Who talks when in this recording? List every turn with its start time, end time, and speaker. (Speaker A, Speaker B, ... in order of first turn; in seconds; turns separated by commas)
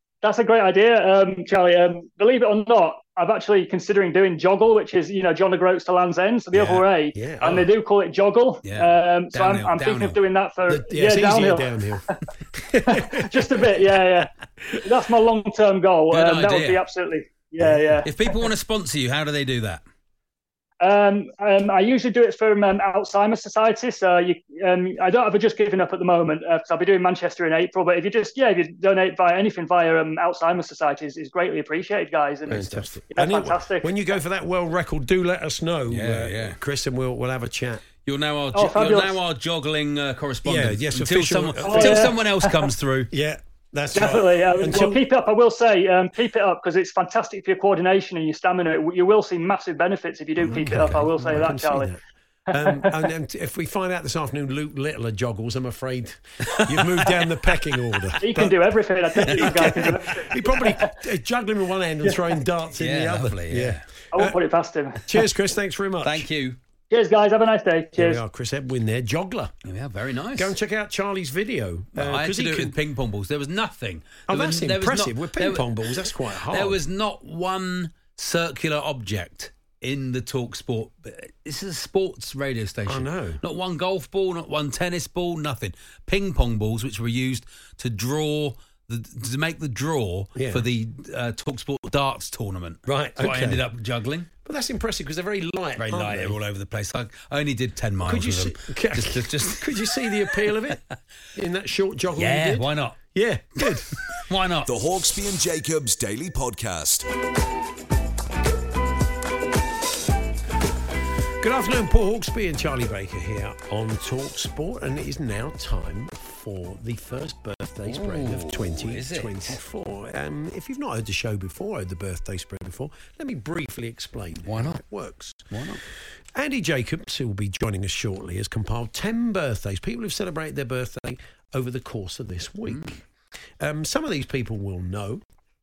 Speaker A: 0.2-11.7, Speaker B: 6.5-6.9, Speaker C: 7.2-7.7, Speaker B: 8.7-10.2, Speaker C: 10.7-13.6, Speaker A: 12.9-14.3, Speaker A: 14.8-18.4, Speaker B: 16.1-16.9, Speaker C: 17.6-18.1, Speaker B: 18.0-19.8, Speaker A: 20.8-34.0, Speaker B: 32.5-32.8, Speaker C: 32.5-37.9, Speaker B: 35.9-36.6, Speaker B: 38.0-43.1, Speaker A: 38.5-39.2, Speaker C: 40.5-42.2, Speaker A: 41.6-42.7, Speaker C: 43.1-45.0, Speaker A: 43.9-52.0, Speaker B: 50.4-51.6, Speaker C: 50.4-52.0, Speaker A: 52.5-53.1, Speaker C: 52.5-58.6, Speaker A: 58.2-61.0, Speaker C: 59.1-64.4, Speaker A: 62.1-62.3, Speaker B: 62.7-63.9, Speaker A: 64.1-65.2, Speaker C: 65.0-66.3, Speaker B: 66.0-66.6, Speaker A: 66.9-68.2, Speaker C: 68.0-69.5, Speaker B: 69.6-70.5, Speaker C: 70.4-72.8, Speaker B: 72.0-94.3, Speaker C: 74.3-76.8, Speaker C: 82.9-83.4, Speaker C: 90.4-90.7, Speaker C: 92.9-93.7, Speaker C: 94.5-96.4, Speaker B: 95.8-100.9, Speaker C: 98.0-100.8, Speaker C: 101.3-104.0, Speaker B: 102.2-103.0, Speaker B: 103.6-104.7, Speaker D: 104.7-107.1, Speaker C: 111.4-125.5, Speaker B: 117.9-119.6, Speaker B: 124.5-124.8, Speaker B: 125.5-125.8, Speaker C: 126.3-133.0, Speaker B: 132.7-133.0, Speaker C: 133.6-135.2